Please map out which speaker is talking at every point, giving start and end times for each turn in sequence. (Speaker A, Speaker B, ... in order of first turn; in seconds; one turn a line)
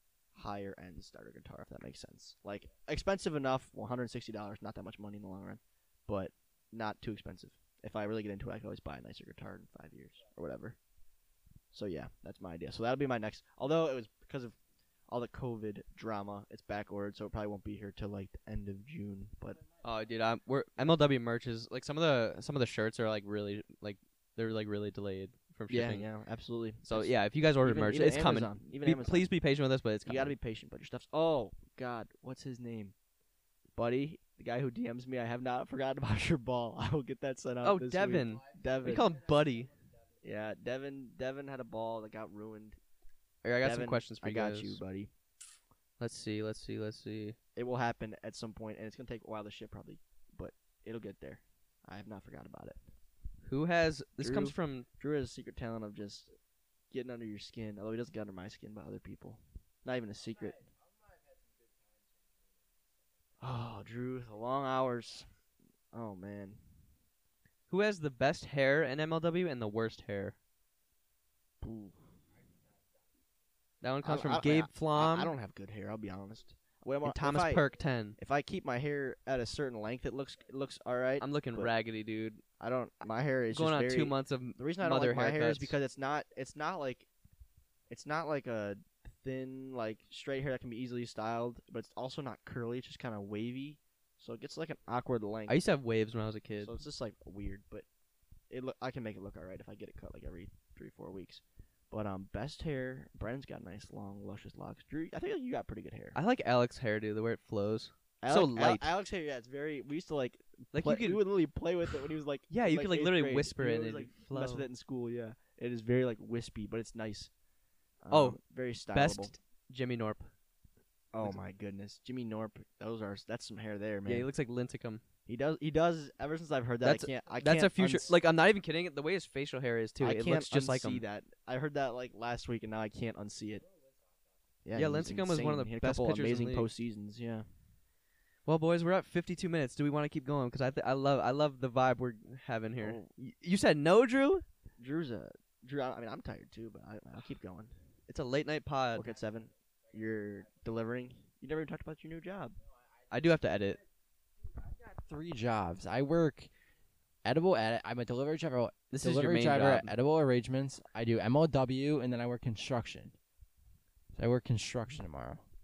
Speaker A: 0.3-10.8
Speaker A: 11.7-14.6
Speaker A: 15.1-19.6
Speaker B: 19.8-26.1
Speaker A: 25.7-29.3
Speaker B: 26.9-30.3
Speaker A: 30.1-32.9
Speaker A: 33.7-39.0
Speaker B: 37.6-39.7
Speaker A: 40.2-42.8
Speaker B: 43.4-44.8
Speaker A: 43.6-45.1
Speaker B: 46.0-47.4
Speaker A: 47.5-52.8
Speaker B: 53.4-54.9
Speaker A: 54.2-56.3
Speaker A: 56.9-60.6
Speaker A: 63.4-65.3
Speaker A: 65.9-66.6
Speaker B: 67.7-70.3
Speaker A: 71.6-72.0
Speaker B: 73.8-75.3
Speaker A: 74.0-77.6
Speaker B: 77.0-78.2
Speaker A: 78.2-81.7
Speaker B: 81.2-82.4
Speaker A: 82.6-87.1
Speaker B: 83.5-85.8
Speaker A: 87.9-95.6
Speaker B: 95.5-96.7
Speaker A: 96.6-97.8
Speaker A: 98.5-106.2
Speaker B: 106.1-108.9
Speaker A: 108.2-117.3
Speaker B: 110.7-111.2
Speaker B: 112.5-114.7
Speaker A: 118.0-119.3
Speaker B: 118.1-118.4
Speaker B: 118.9-120.3
Speaker A: 121.1-124.3
Speaker B: 124.0-125.0
Speaker A: 125.3-128.1
Speaker B: 126.8-131.0
Speaker A: 130.0-133.7
Speaker A: 134.6-137.5
Speaker B: 134.7-136.7
Speaker B: 138.4-144.4
Speaker A: 144.8-147.7
Speaker B: 148.1-149.1
Speaker A: 148.9-152.6
Speaker B: 153.1-153.8
Speaker C: 154.8-156.5
Speaker C: 157.2-163.1
Speaker B: 158.9-159.9
Speaker C: 164.2-165.4